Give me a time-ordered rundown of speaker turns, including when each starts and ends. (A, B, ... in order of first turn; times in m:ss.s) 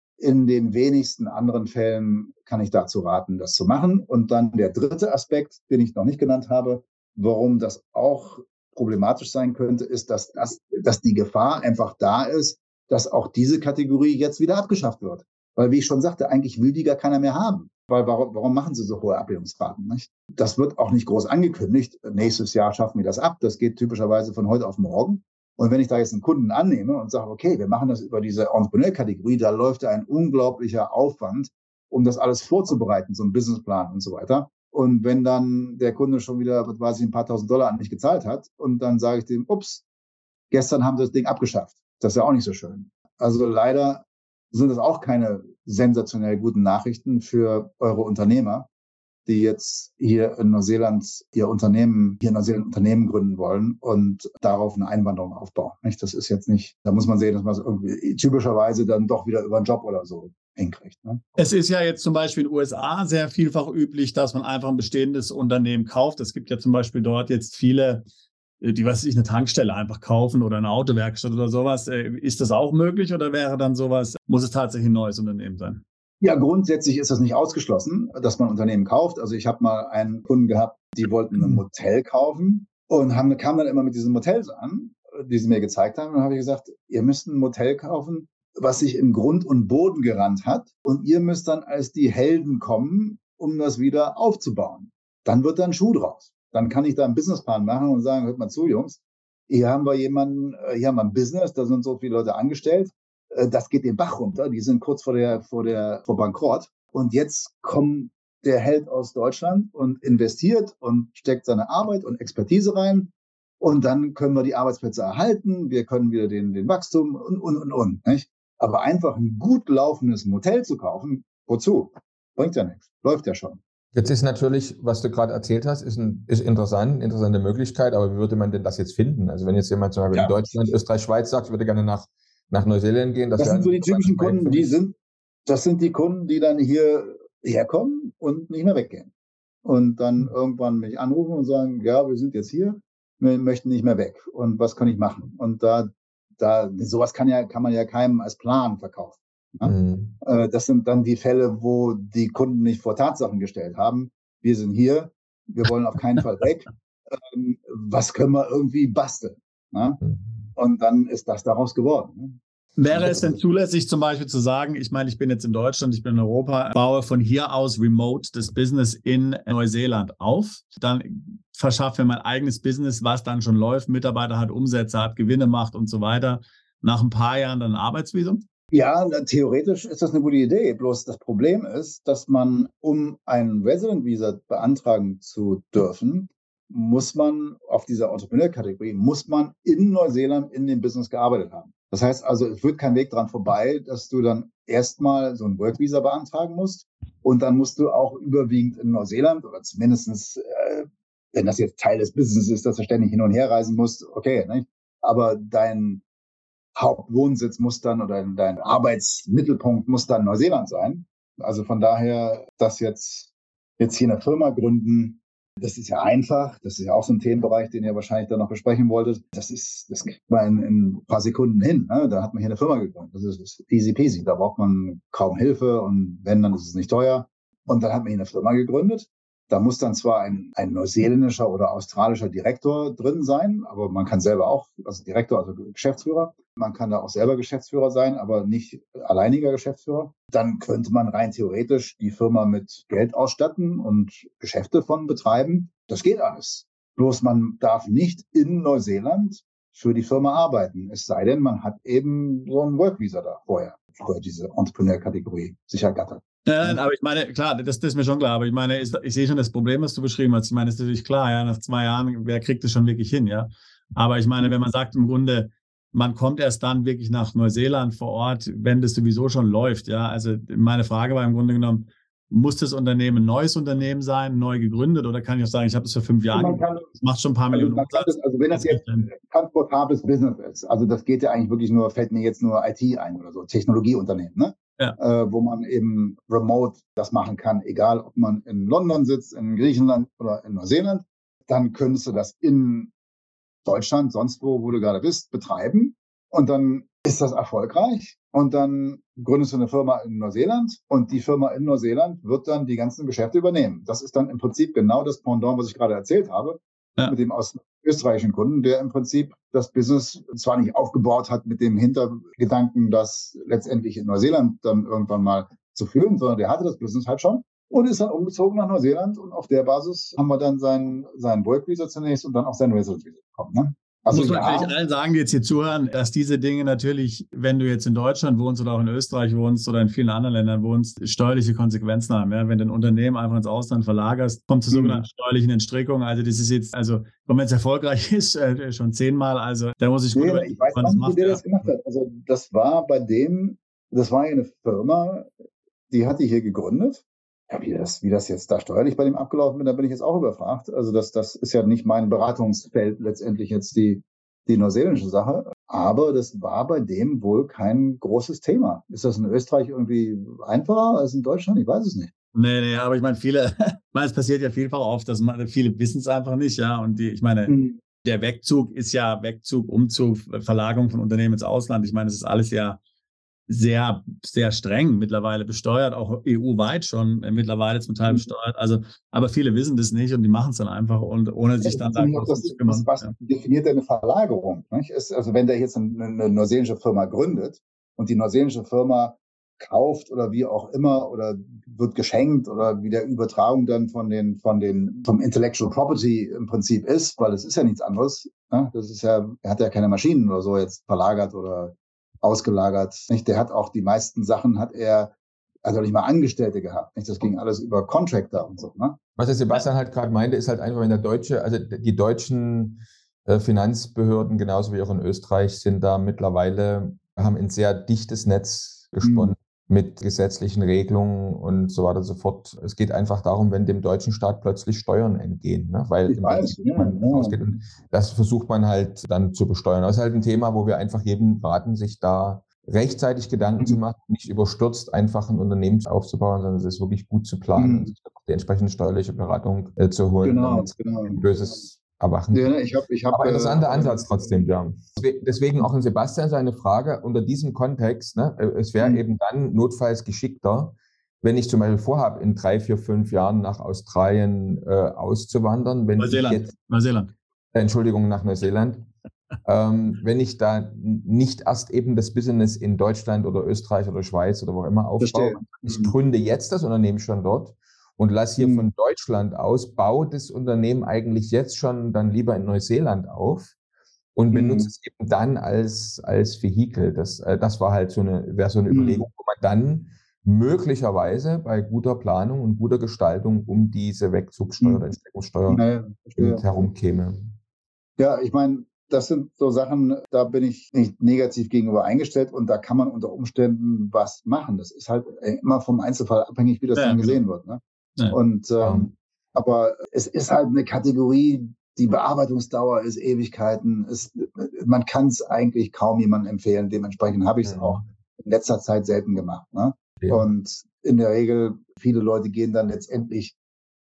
0:00.2-0:39.8 A
0:40.5-0:48.7 A
0:49.3-1:01.2 A
1:01.4-1:08.0 B
1:08.6-1:15.8 B
1:16.2-2:03.6 A
2:03.9-2:14.7 C
2:10.1-2:10.7 A
2:13.4-2:19.1 A
2:19.6-2:40.0 A
2:29.6-2:30.2 C
2:40.6-2:42.4 A
2:42.8-2:58.4 B
2:42.9-2:43.4 A
2:58.7-3:26.0 A
3:26.8-4:16.8 A
4:16.5-4:39.1 B
4:36.3-4:36.9 A
4:37.5-4:52.9 A
4:53.6-5:24.7 A
5:24.1-5:41.5 B
5:34.7-5:35.0 A
5:40.1-5:45.3 A
5:45.9-6:02.1 A
6:02.3-6:12.8 B
6:07.5-6:07.8 A
6:13.5-6:23.1 B
6:21.6-6:45.1 A
6:45.6-6:49.0 A
6:49.2-7:22.5 C
6:59.0-6:59.3 A
7:06.1-7:07.4 A
7:17.6-7:17.9 A
7:20.2-7:21.2 A
7:22.3-7:24.2 A
7:23.1-7:36.5 C
7:36.0-7:37.1 B
7:37.5-7:38.9 C
7:39.4-7:53.5 C
7:45.0-7:46.0 A
7:48.4-7:48.7 A
7:54.1-8:05.6 C
7:54.3-7:54.7 A
7:58.7-7:59.1 A
8:04.6-8:04.9 A
8:05.5-8:06.4 A
8:06.1-8:07.4 C
8:08.0-8:33.4 A
8:16.8-8:17.2 B
8:18.6-8:18.9 C
8:27.4-8:27.8 C
8:30.0-8:30.2 C